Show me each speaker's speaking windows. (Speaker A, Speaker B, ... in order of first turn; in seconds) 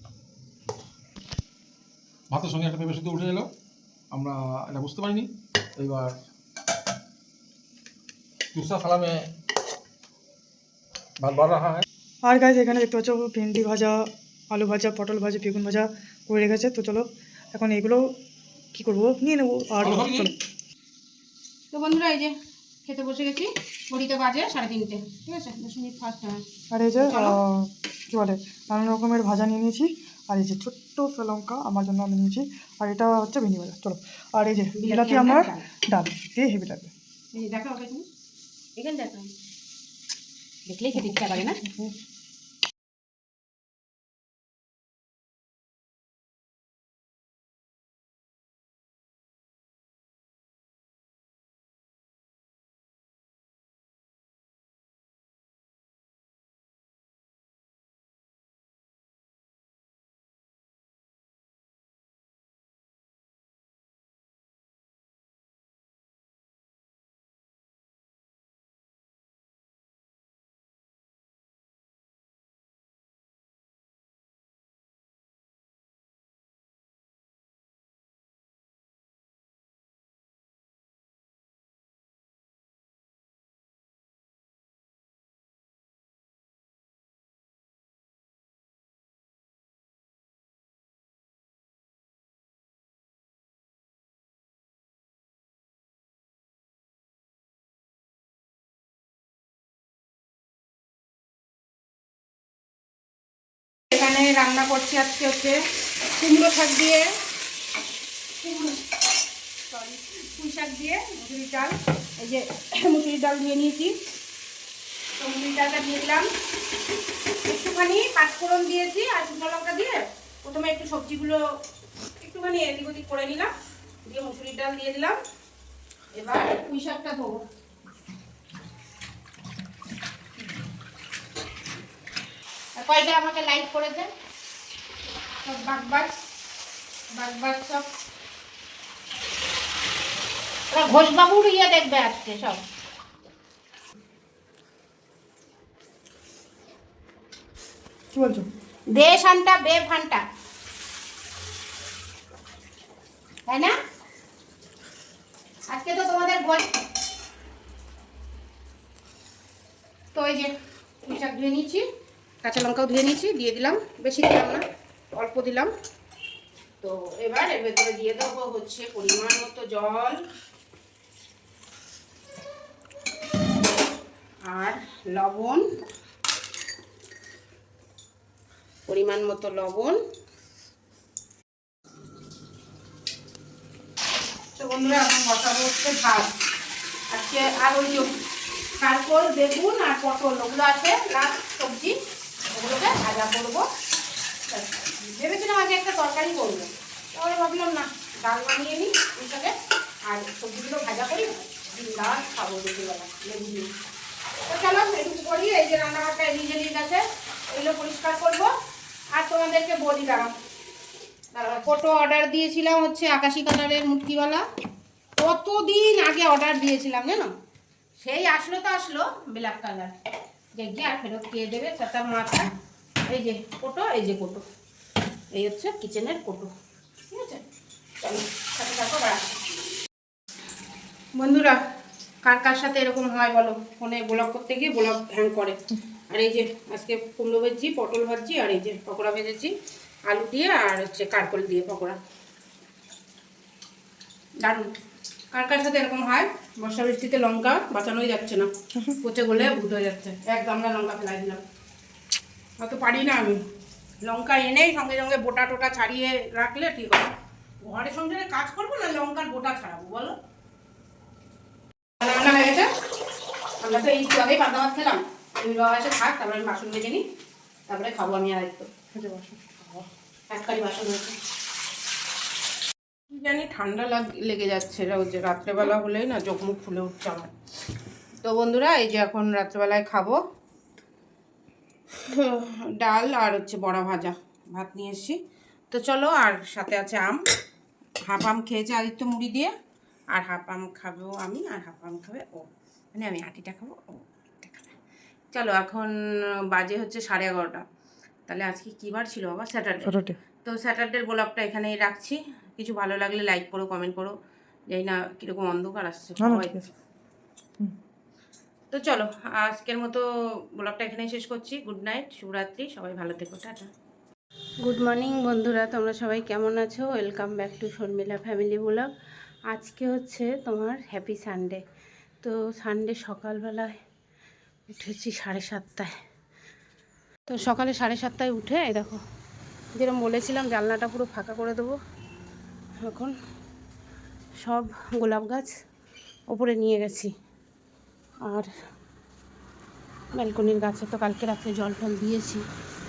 Speaker A: 2.3-3.5, 4.1-6.2, 8.5-9.3, 11.2-11.8, 19.8-20.3
Speaker B: 12.2-18.1, 18.7-20.3, 26.7-36.9, 41.0-42.0, 148.1-148.5, 268.9-269.8, 299.8-300.2, 306.2-306.7
Speaker C: 21.7-26.4, 27.0-27.4, 34.8-35.6, 37.3-38.1, 38.8-39.3, 40.7-41.6, 103.9-107.1, 108.4-108.9, 109.7-114.0, 115.2-116.3, 117.4-121.4, 122.2-123.5, 124.1-125.2, 126.1-127.4, 132.8-134.1, 135.4-136.2, 137.1-137.9, 140.7-142.6, 148.9-150.2, 153.5-153.8, 155.7-156.7, 160.1-160.5, 161.0-161.8, 162.4-165.7, 166.8-170.2, 174.5-175.8, 178.9-180.0, 184.6-186.3, 187.1-188.1, 188.8-192.0, 192.5-193.7, 194.5-199.5, 200.1-203.7, 204.5-208.5, 209.1-210.3, 211.3-214.5, 215.2-217.3, 218.0-219.9, 220.5-222.5, 223.1-224.4, 225.3-226.5, 227.1-227.4, 228.0-229.4, 231.2-231.6, 232.2-239.5, 240.1-242.0, 244.4-244.7, 245.3-248.5, 249.0-251.4, 252.6-253.4, 254.0-257.1, 257.6-260.1, 262.0-262.7, 263.6-267.0, 267.7-268.9, 270.3-271.1, 273.1-277.3, 278.2-280.2, 282.0-285.2, 285.7-287.2, 288.0-289.5, 290.1-294.8, 295.3-297.6, 298.3-304.1, 304.7-306.6, 308.7-313.7, 314.6-318.9, 319.5-321.6, 322.2-323.8, 324.7-325.9, 327.3-329.0, 329.8-331.8, 332.8-333.1, 334.4-335.5, 336.3-337.1, 338.2-338.5, 340.1-342.4